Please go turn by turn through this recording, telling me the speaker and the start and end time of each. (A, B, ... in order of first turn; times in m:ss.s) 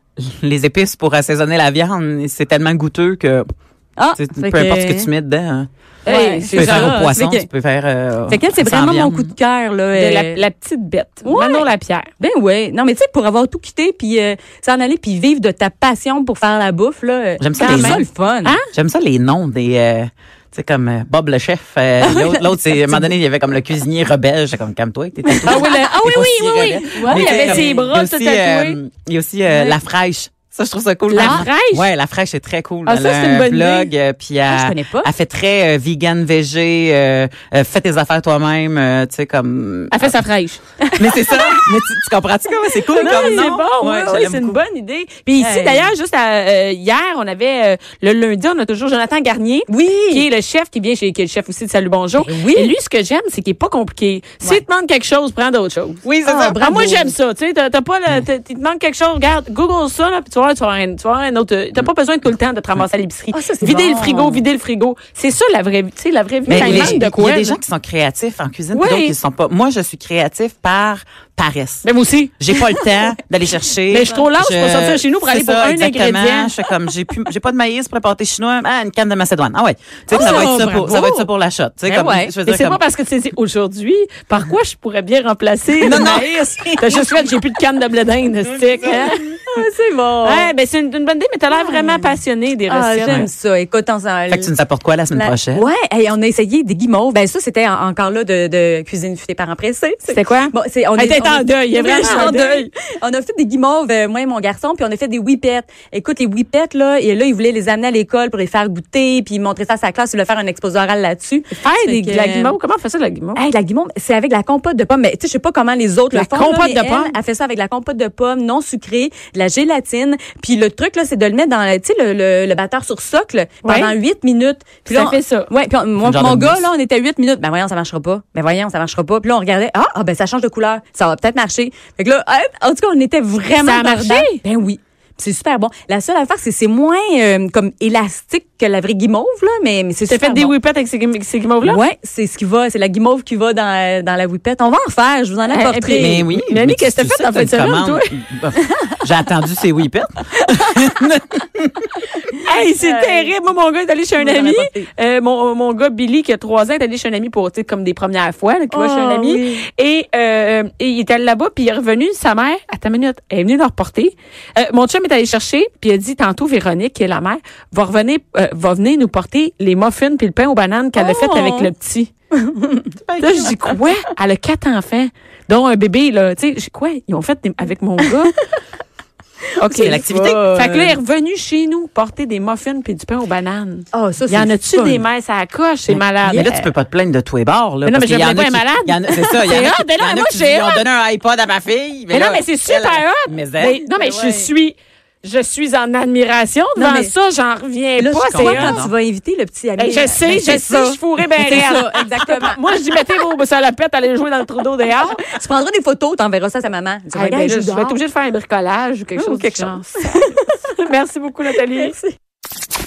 0:00.2-0:03.4 A
0:04.0-0:05.1 B
0:04.1-0:05.7 A
0:06.0-0:07.1 C
0:06.0-0:07.5 B
0:06.5-0:09.3 A
0:08.3-0:10.4 B
0:09.9-0:12.1 C
0:11.2-0:11.7 B
0:12.2-0:18.6 B
0:17.4-0:18.1 A
0:17.6-0:18.6 C
0:18.7-0:40.1 A
0:22.0-0:23.0 B
0:25.3-0:25.9 B
0:25.4-0:28.8 C
0:26.9-0:27.9 B
0:29.5-0:29.8 B
0:31.1-0:31.8 C
0:31.2-0:31.4 B
0:32.8-0:33.9 C
0:34.5-0:35.1 B
0:39.9-0:40.6 C
0:40.8-0:41.6 B
0:41.0-0:44.6 A
0:43.0-0:43.5 B
0:43.0-0:56.0 C
0:45.4-0:45.9 B
0:49.7-0:50.3 B
0:52.2-0:52.7 B
0:56.0-0:56.6 A
0:56.2-0:57.1 B
0:56.6-1:07.6 C
1:03.3-1:04.4 B
1:06.4-1:07.0 B
1:06.5-1:11.8 A
1:08.7-1:09.1 C
1:11.8-1:12.3 C
1:12.4-1:22.8 A
1:12.6-1:12.8 B
1:13.9-1:16.5 C
1:20.1-1:21.3 B
1:21.9-1:22.3 B
1:22.4-1:29.3 C
1:25.8-1:27.3 A
1:28.5-1:29.2 A
1:29.0-1:30.5 B
1:30.2-1:33.2 C
1:31.5-1:32.1 B
1:32.7-1:34.5 B
1:34.3-1:35.7 A
1:35.1-1:52.5 B
1:40.1-1:42.7 C
1:51.6-1:53.4 C
1:53.4-2:20.5 B
1:56.1-1:57.1 C
2:03.6-2:03.9 C
2:04.9-2:05.5 C
2:06.0-2:06.6 A
2:13.6-2:14.4 C
2:20.1-2:21.8 C
2:21.6-2:26.2 B
2:25.5-2:28.1 C
2:26.0-2:31.9 A
2:32.2-2:33.3 B
2:32.4-2:52.1 C
2:34.2-2:34.9 B
2:38.7-2:39.6 B
2:50.9-2:51.7 B
2:52.3-2:52.9 B
2:53.0-2:53.6 A
2:53.2-2:58.3 C
2:58.1-2:58.4 B
2:59.6-3:06.7 C
2:59.6-3:01.0 B
2:59.8-3:00.5 A
3:03.9-3:05.0 B
3:05.9-3:13.8 A
3:06.2-3:06.5 B
3:07.8-3:10.8 C
3:12.1-3:18.8 C
3:13.7-3:14.5 B
3:16.8-3:17.1 B
3:18.0-3:23.1 B
3:18.3-3:18.9 A
3:19.8-3:25.2 C
3:25.0-3:28.0 B
3:27.1-3:32.0 C
3:29.2-3:30.5 B
3:31.6-3:32.1 B